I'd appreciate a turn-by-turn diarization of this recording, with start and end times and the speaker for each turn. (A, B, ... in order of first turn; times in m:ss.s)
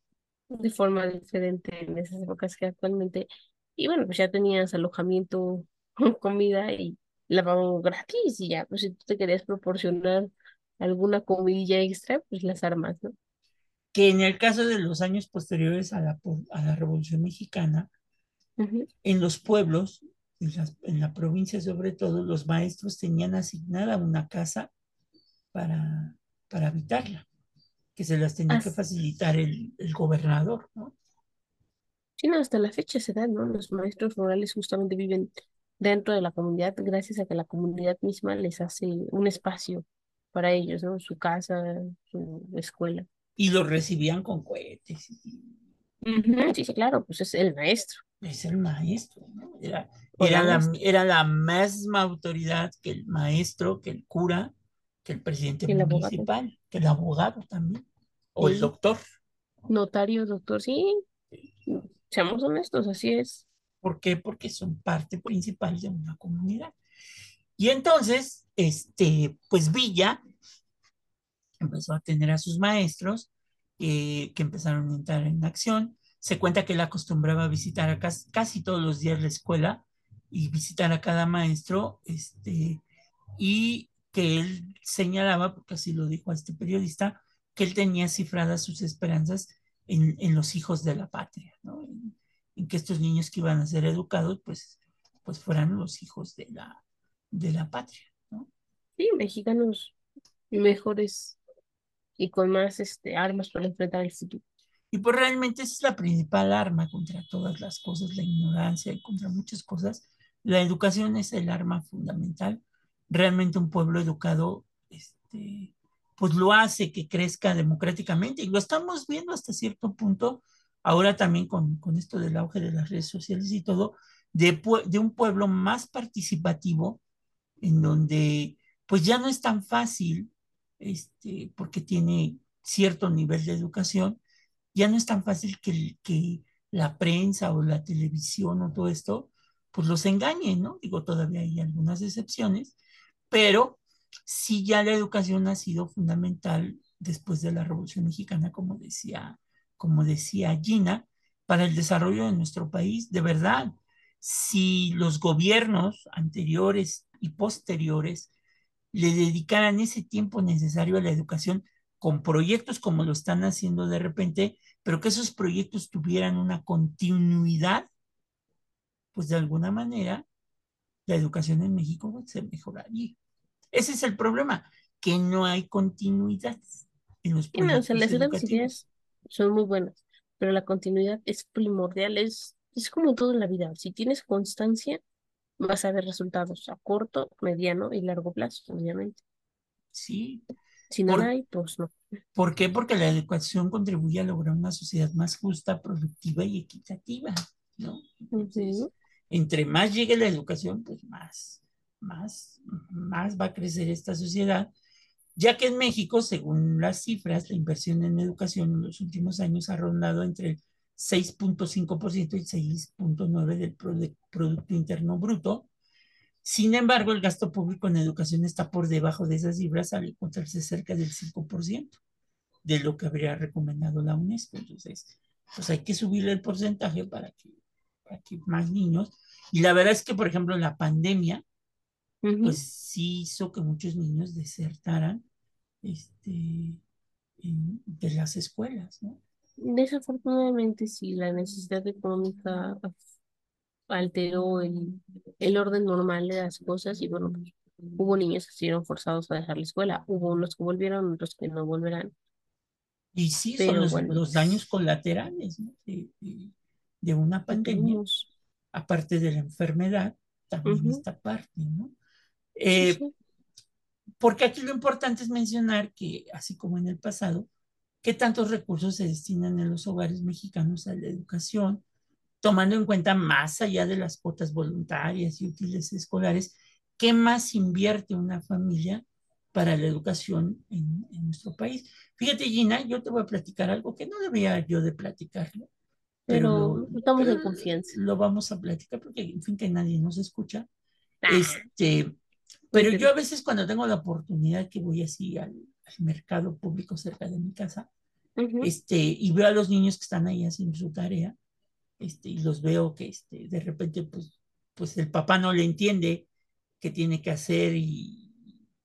0:00.5-0:13.1 A
0:13.9-0:17.9 B
0:18.6-0:18.9 A
0:19.0-0:24.7 B
0:25.5-0:27.3 B
0:28.0-0:30.9 B
0:32.2-0:43.0 A
0:43.4-0:45.5 B
0:46.0-0:48.0 A
0:48.2-0:54.5 B
0:50.2-0:50.7 A
0:55.0-0:59.0 B
0:55.7-0:56.3 A
0:58.4-0:58.7 A
0:59.7-1:01.0 A
1:01.7-1:03.4 A
1:03.8-1:06.7 B
1:07.6-1:10.2 B
1:11.6-1:22.8 B
1:23.4-1:36.8 B
1:37.3-1:38.5 B
1:39.0-1:39.9 A
1:40.5-1:41.4 A
1:42.2-1:44.4 A
1:44.9-2:07.0 B
2:07.6-2:14.2 B
2:14.7-2:22.7 B
2:23.3-2:38.3 B
2:38.9-2:47.9 B
2:49.1-2:50.2 B
2:51.0-2:53.2 B
2:53.7-2:58.8 B
2:57.5-3:05.0 A
3:05.6-3:09.2 A
3:09.9-3:10.4 B
3:10.9-3:11.9 A
3:11.0-3:11.3 B
3:12.3-3:24.7 B
3:18.3-3:18.9 A
3:25.4-3:35.7 B
3:36.4-3:42.0 B
3:42.6-3:47.5 B
3:48.0-3:51.4 B
3:52.2-3:52.6 A
3:52.4-3:55.2 B
3:55.8-3:56.8 B
3:57.4-3:59.2 B
3:59.6-4:02.9 A
4:03.9-4:12.1 A
4:13.1-4:18.0 B
4:13.6-4:14.2 A
4:17.5-4:18.3 A
4:18.7-4:21.9 B
4:20.6-4:21.0 A
4:22.6-4:23.0 B
4:22.8-4:23.1 A
4:24.2-4:27.5 B
4:28.0-4:31.8 B
4:32.4-4:45.7 B
4:46.3-4:47.9 A
4:46.3-4:50.7 B
4:51.2-4:51.6 A
4:51.3-4:52.1 B
4:52.7-4:57.9 B
4:52.7-4:53.1 A
4:58.4-4:58.7 A
4:58.6-5:01.4 B
5:02.0-5:06.3 B
5:06.8-5:08.3 B